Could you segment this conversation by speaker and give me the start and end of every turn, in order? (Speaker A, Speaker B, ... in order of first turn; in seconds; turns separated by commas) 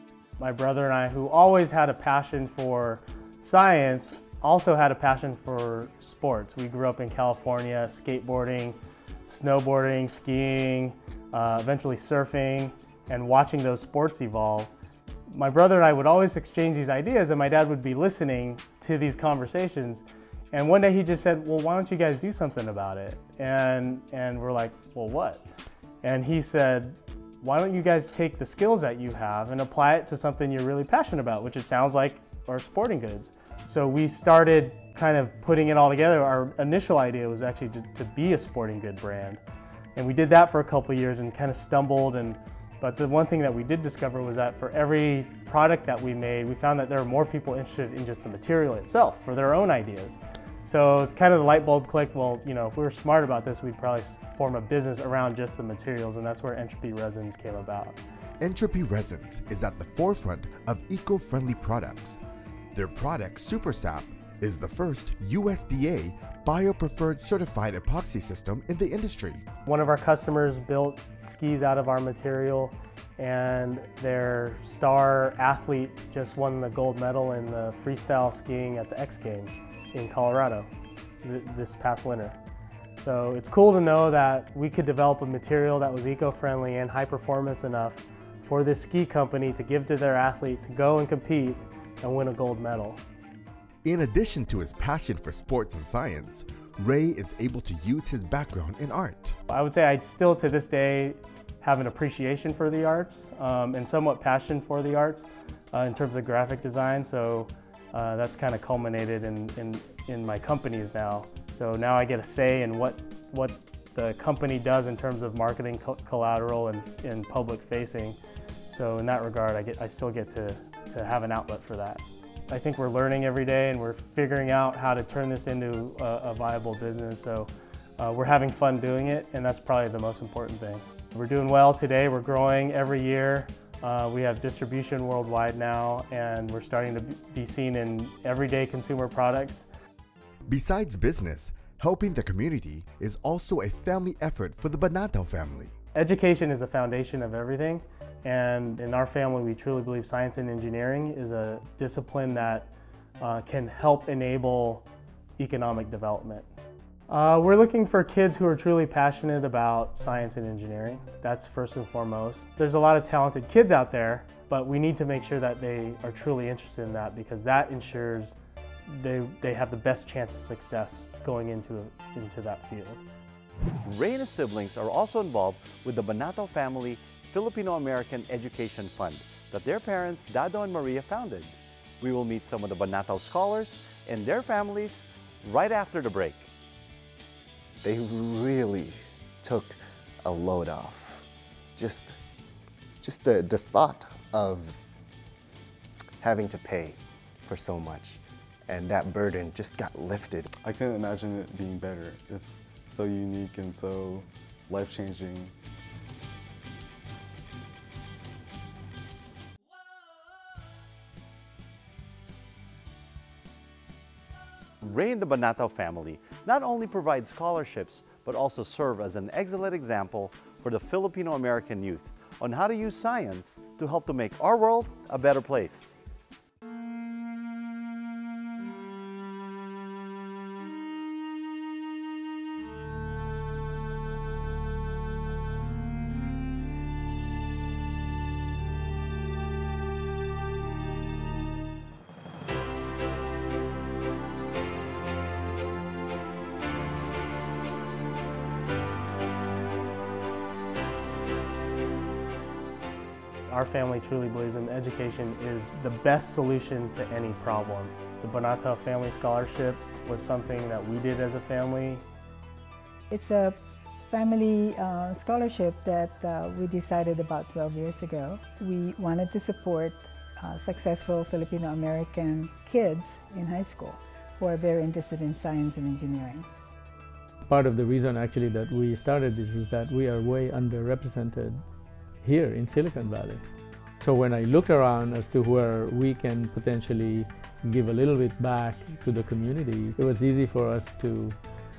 Speaker A: 0.4-14.7, Speaker A: 15.3-25.4, Speaker A: 26.0-39.4, Speaker A: 40.0-58.0, Speaker B: 58.4-62.2, Speaker B: 62.7-69.4, Speaker A: 69.7-80.7, Speaker A: 81.2-82.4, Speaker A: 83.0-93.0, Speaker B: 93.8-99.4, Speaker A: 99.5-118.2, Speaker A: 118.7-139.7, Speaker B: 140.5-145.7, Speaker A: 145.9-154.8, Speaker A: 155.4-156.5, Speaker A: 157.1-168.4, Speaker A: 168.9-173.0, Speaker C: 173.8-186.5, Speaker D: 187.9-188.9, Speaker D: 189.5-189.7, Speaker D: 190.3-191.2, Speaker D: 191.8-192.1, Speaker D: 193.1-194.8, Speaker D: 196.2-196.9, Speaker D: 197.5-198.1, Speaker D: 198.7-200.4, Speaker E: 200.6-205.5, Speaker C: 214.8-226.0, Speaker A: 253.5-262.0, Speaker F: 263.1-263.6, Speaker F: 264.1-276.4, Speaker G: 277.5-281.6, Speaker G: 282.2-283.4, Speaker G: 284.0-291.4